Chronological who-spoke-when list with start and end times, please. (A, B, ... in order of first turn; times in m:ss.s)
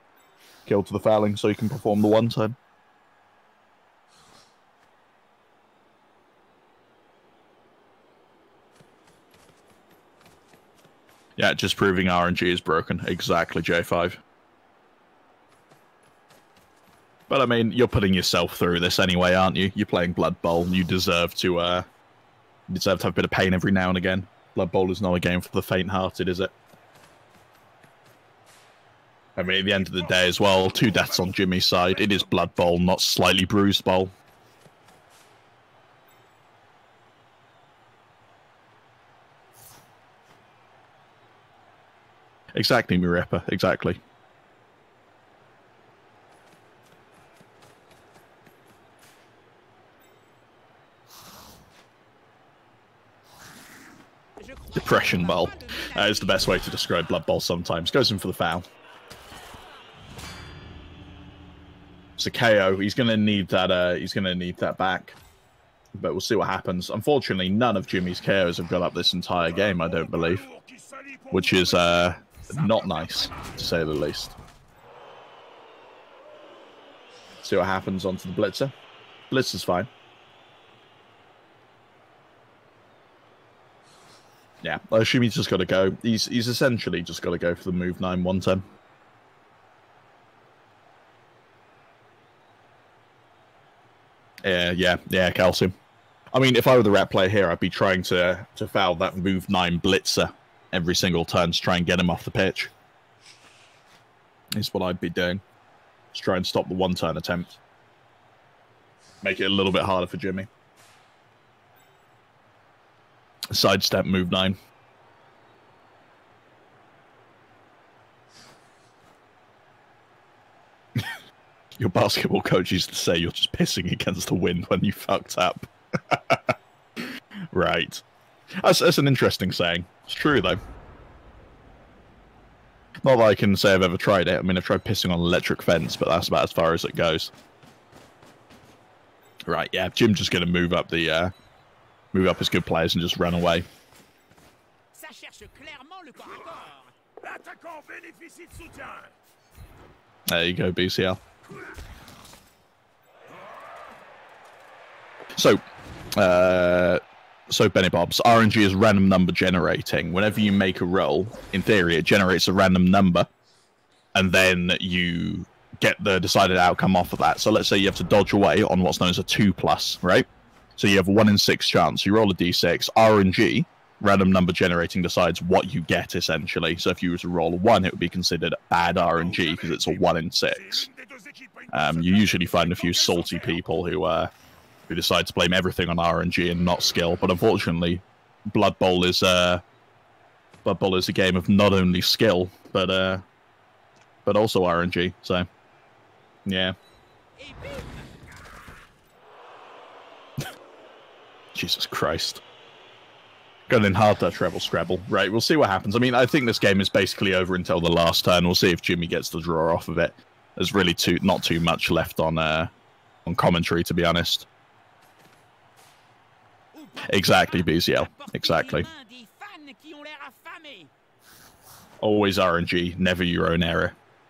0:00.6-0:02.6 A
0:11.4-0:14.2 A
0:17.3-0:21.8 A
0:22.7-0:26.5 A
0:29.4-0:34.1 A
0:29.4-0:32.3 B
0:42.5-0:44.0 A
0:54.4-0:56.9 C
0:54.7-0:58.6 A
1:02.2-1:05.2 A
1:05.9-1:10.4 A
1:09.4-1:13.7 B
1:11.3-1:14.4 A
1:17.4-1:18.7 A
1:19.3-1:19.9 A
1:24.6-1:28.6 A
1:34.4-1:35.7 A
1:36.3-1:42.7 A
1:44.5-1:45.4 A
1:46.1-1:47.6 A
1:49.2-1:50.5 A
1:53.5-1:54.6 A
2:01.8-2:08.0 A
2:08.6-2:10.6 A
2:13.0-2:17.3 A
2:19.5-2:21.3 A
2:22.1-2:23.6 A
2:24.9-2:26.9 C
2:27.2-2:29.2 B
2:30.3-2:31.2 A
2:35.3-2:35.6 A
2:36.2-2:43.3 A
2:44.1-3:00.9 A
2:59.0-3:03.6 B
3:01.7-3:04.3 A
3:04.9-3:09.6 A
3:10.6-3:13.2 A
3:14.2-3:15.5 A
3:16.4-3:16.7 A
3:17.4-3:18.1 C
3:21.5-3:22.4 A
3:23.7-3:32.7 A
3:33.2-3:34.5 A
3:36.7-3:40.9 C
3:37.0-3:38.9 A
3:42.0-3:44.0 A